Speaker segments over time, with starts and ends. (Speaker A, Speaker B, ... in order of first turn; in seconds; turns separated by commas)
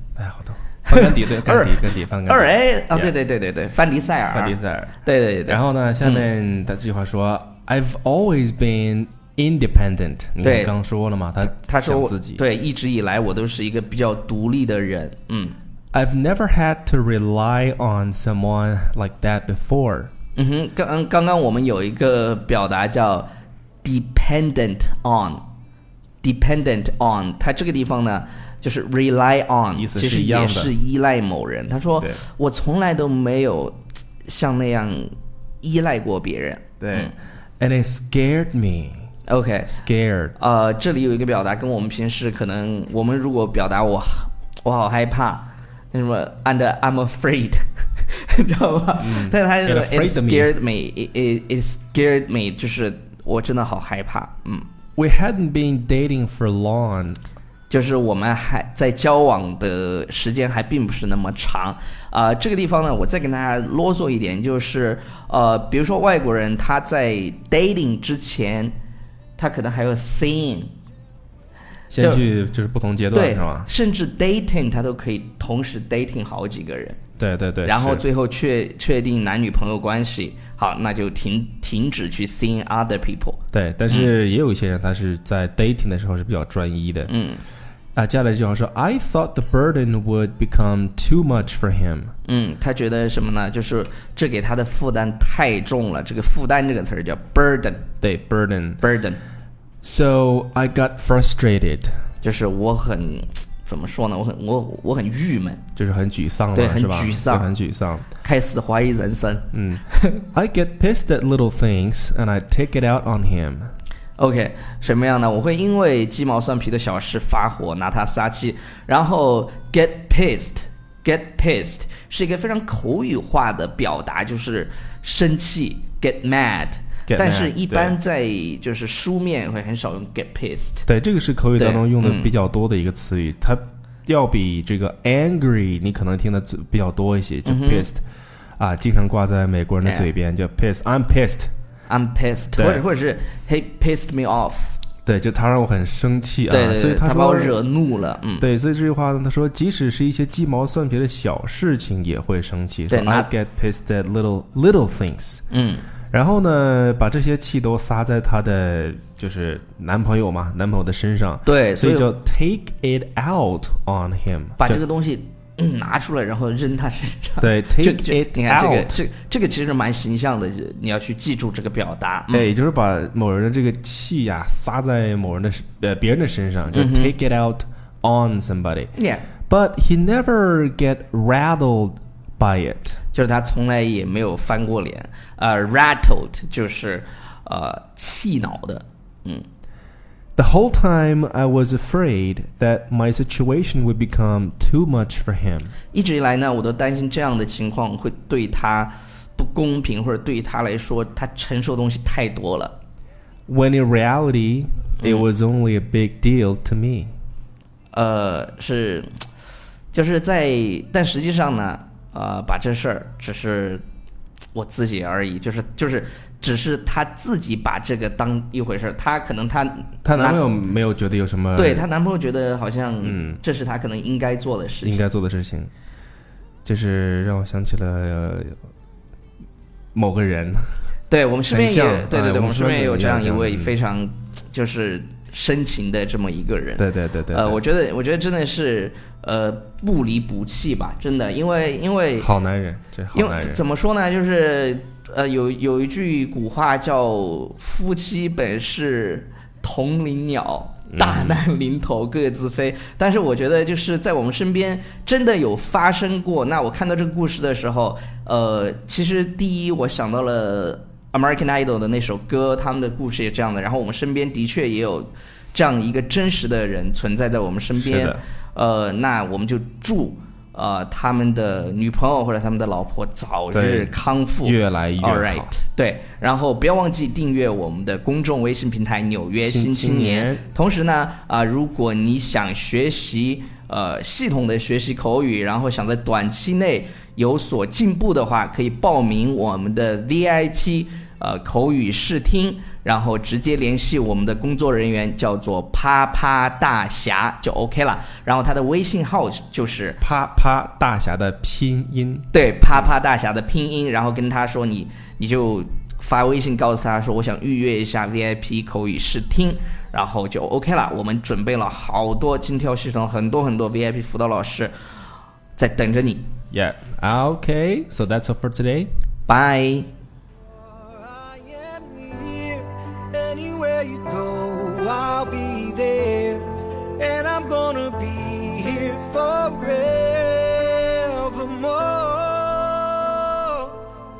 Speaker A: 0.2-3.1, Speaker B: 0.9-6.2, Speaker A: 4.3-12.4, Speaker B: 10.4-10.7, Speaker B: 11.4-15.6, Speaker A: 15.9-20.1, Speaker B: 20.4-23.3, Speaker B: 23.8-25.4, Speaker B: 26.2-37.1, Speaker A: 29.8-30.7, Speaker A: 36.8-39.1, Speaker B: 39.3-39.8, Speaker A: 39.7-40.4, Speaker B: 40.4-54.7, Speaker A: 49.0-50.5, Speaker A: 55.0-57.2, Speaker B: 57.7-68.7, Speaker B: 69.4-70.7, Speaker A: 71.9-73.7, Speaker B: 72.0-72.3, Speaker B: 73.1-77.0, Speaker A: 77.2-78.0, Speaker B: 77.6-84.1, Speaker A: 83.5-87.1, Speaker B: 87.1-87.4, Speaker A: 88.0-92.1, Speaker B: 92.2-97.9, Speaker A: 98.0-98.8, Speaker B: 98.8-99.2, Speaker A: 99.8-102.0, Speaker B: 102.2-105.6, Speaker A: 105.8-108.1, Speaker B: 106.5-107.5, Speaker B: 108.2-110.2, Speaker A: 109.5-113.7, Speaker B: 114.2-130.9, Speaker A: 127.1-128.0, Speaker A: 130.9-138.0, Speaker B: 131.6-132.3, Speaker B: 137.4-137.9, Speaker A: 138.6-141.5, Speaker B: 141.9-144.8, Speaker A: 142.6-142.8, Speaker A: 145.1-147.6, Speaker B: 146.5-148.4, Speaker A: 148.4-155.4, Speaker B: 152.9-153.3, Speaker B: 155.5-155.9, Speaker A: 156.1-164.8, Speaker B: 161.5-162.1, Speaker B: 164.6-172.5, Speaker A: 167.4-169.0, Speaker A: 172.3-178.9, Speaker B: 176.7-177.1, Speaker B: 179.0-179.2, Speaker A: 179.5-183.0, Speaker B: 183.1-189.5, Speaker A: 190.4-195.7, Speaker B: 195.9-202.8, Speaker A: 203.5-207.1, Speaker B: 205.0-205.3, Speaker B: 207.9-209.1, Speaker B: 209.9-213.8, Speaker B: 214.5-220.4, Speaker A: 220.0-221.9, Speaker B: 221.6-225.0, Speaker A: 223.0-223.4, Speaker A: 224.8-225.7, Speaker A: 226.6-228.6, Speaker A: 229.9-230.6, Speaker B: 231.1-242.3, Speaker A: 231.5-233.8, Speaker A: 236.8-237.6, Speaker A: 242.2-243.6, Speaker B: 243.1-300.0, Speaker A: 250.9-251.4, Speaker A: 267.8-268.2, Speaker A: 273.5-275.5, Speaker A: 279.4-280.4, Speaker A: 300.0-302.2, Speaker B: 302.3-314.7, Speaker B: 315.6-316.3, Speaker A: 316.5-318.9, Speaker B: 319.3-319.9, Speaker C: 321.1-333.8